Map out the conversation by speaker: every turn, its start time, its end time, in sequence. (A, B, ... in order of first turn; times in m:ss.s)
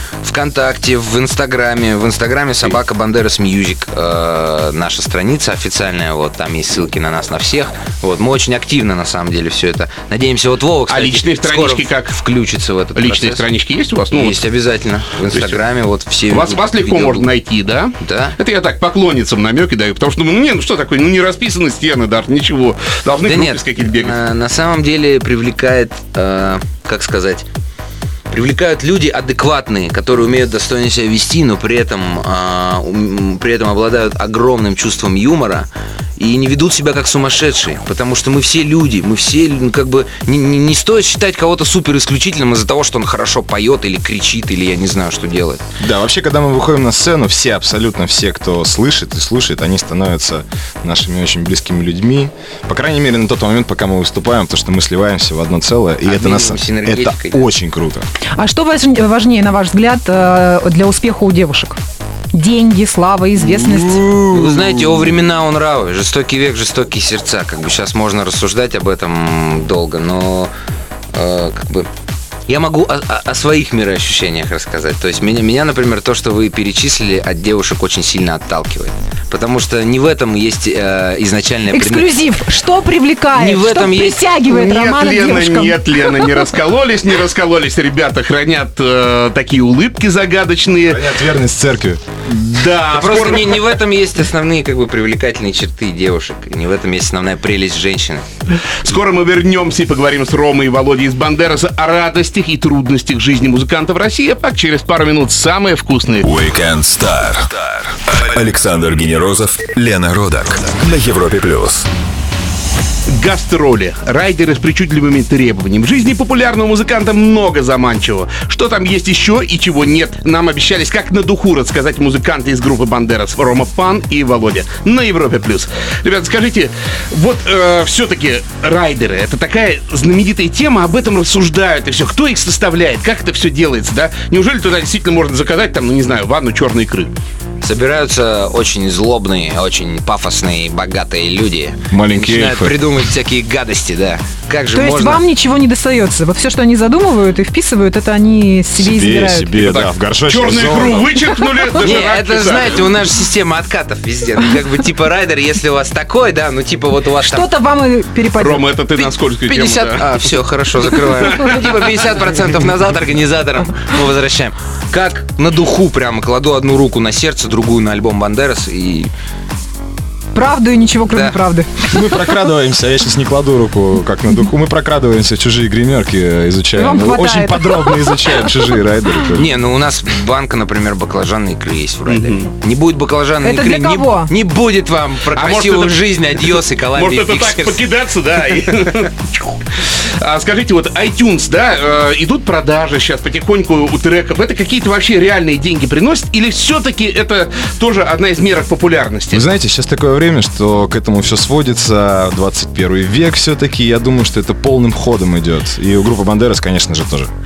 0:00.2-0:13.4 A
0:10.9-0:12.2 B
0:13.0-0:14.4 B
0:14.1-0:17.3 A
0:15.3-0:15.6 B
0:16.3-0:24.2 B
0:18.0-0:18.4 A
0:23.2-0:27.5 A
0:28.3-0:45.6 A
0:45.8-0:58.1 C
0:56.0-0:57.5 A
0:58.4-1:01.8 D
1:02.3-1:04.1 D
1:03.4-1:05.1 C
1:04.3-1:10.5 A
1:11.1-1:11.9 A
1:12.5-1:22.1 A
1:21.7-1:26.4 D
1:23.3-1:24.2 A
1:24.5-1:31.1 B
1:30.9-1:32.0 C
1:32.3-1:33.8 B
1:32.9-1:38.2 A
1:38.8-1:46.3 B
1:46.2-1:51.9 E
1:53.1-2:17.1 B
2:17.6-2:25.2 A
2:21.9-2:22.8 C
2:24.7-2:29.6 D
2:28.8-2:31.2 C
2:29.6-2:32.8 B
2:31.7-2:37.5 A
2:37.2-2:38.7 D
2:38.4-2:40.0 B
2:39.0-2:49.1 A
2:41.3-2:41.6 D
2:50.3-2:52.2 D
2:51.1-2:51.4 A
2:51.9-2:59.5 C
2:56.8-2:58.5 D
2:59.3-3:07.8 A
3:02.1-3:02.4 B
3:03.4-3:04.3 D
3:05.3-3:19.4 B
3:19.3-3:27.3 C